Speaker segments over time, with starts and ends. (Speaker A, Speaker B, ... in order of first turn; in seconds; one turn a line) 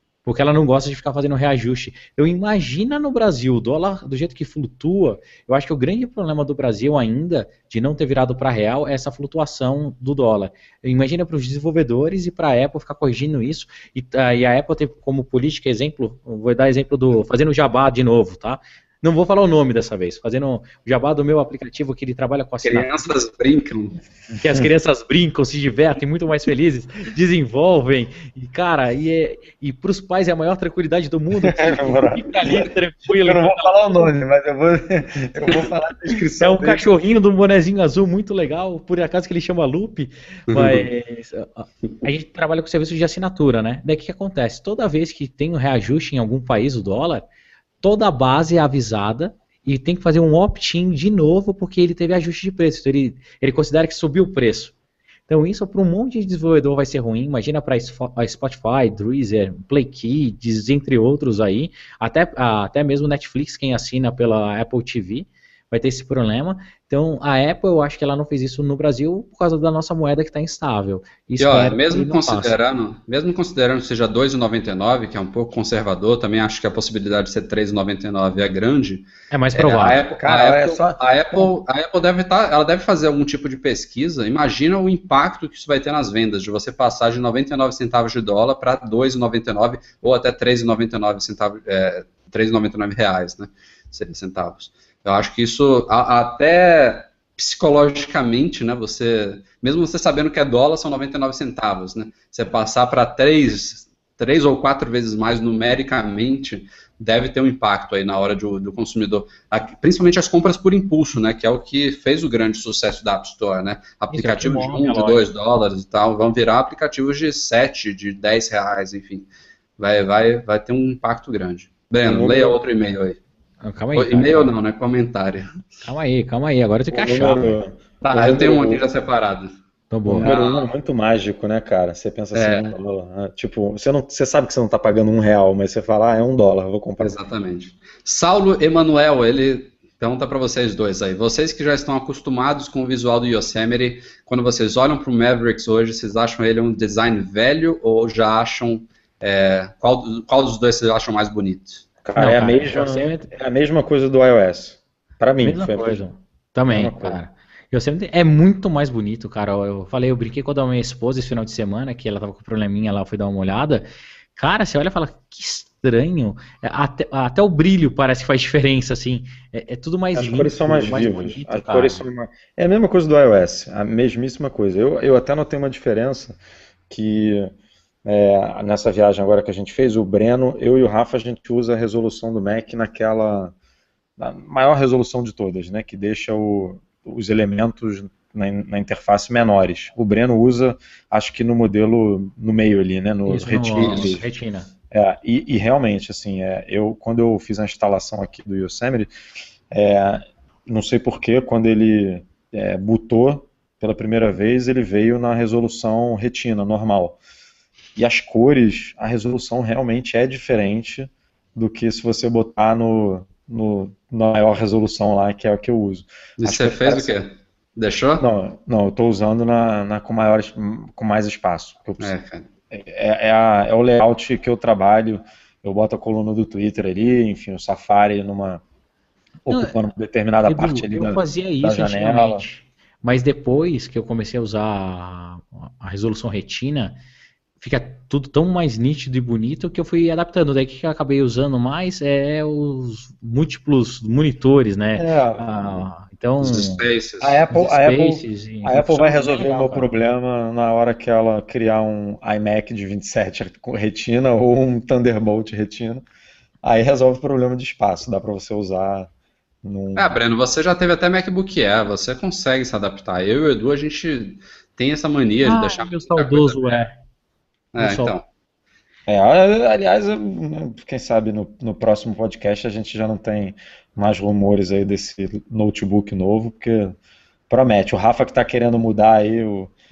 Speaker A: 0.2-22.9
Speaker B: 22.6-24.0
Speaker A: 24.3-34.1
Speaker C: 31.4-32.7
Speaker C: 33.2-36.9
Speaker A: 36.4-47.3
Speaker B: 40.5-40.9
Speaker A: 47.8-54.7
Speaker A: 55.3-72.6
Speaker B: 71.4-123.2
Speaker A: 79.3-80.0
Speaker C: 80.2-81.5
Speaker A: 114.1-115.2
Speaker C: 122.0-122.6
Speaker A: 123.6-124.5
Speaker B: 124.0-125.7
Speaker A: 125.8-127.6
Speaker C: 126.9-128.8
Speaker B: 128.0-129.5
Speaker A: 129.9-130.3
Speaker C: 130.1-137.2
Speaker B: 130.2-130.7
Speaker B: 132.3-132.7
Speaker B: 137.0-151.9
Speaker C: 152.0-156.0
Speaker A: 152.2-153.3
Speaker A: 155.4-172.0
Speaker C: 156.7-157.2
Speaker C: 170.1-176.4
Speaker C: 176.9-177.5
Speaker C: 178.1-183.5
Speaker C: 184.2-194.3
Speaker A: 193.3-194.7
Speaker B: 193.7-194.2
Speaker C: 194.9-199.1
Speaker C: 199.7-207.2
Speaker C: 208.0-217.2
Speaker B: 216.4-218.3
Speaker C: 218.2-222.2
Speaker B: 222.0-222.5
Speaker C: 222.7-228.6
Speaker C: 229.5-232.4
Speaker A: 229.5-229.8
Speaker A: 230.4-237.0
Speaker A: 237.6-246.8
Speaker C: 245.0-245.8
Speaker B: 246.4-247.4
Speaker C: 247.2-256.0
Speaker A: 247.5-249.9
Speaker C: 256.6-259.1
Speaker C: 259.6-260.1
Speaker B: 259.9-266.8
Speaker A: 265.4-267.0
Speaker B: 267.7-268.2
Speaker A: 267.8-268.1
Speaker C: 269.1-277.0
Speaker C: 277.5-279.7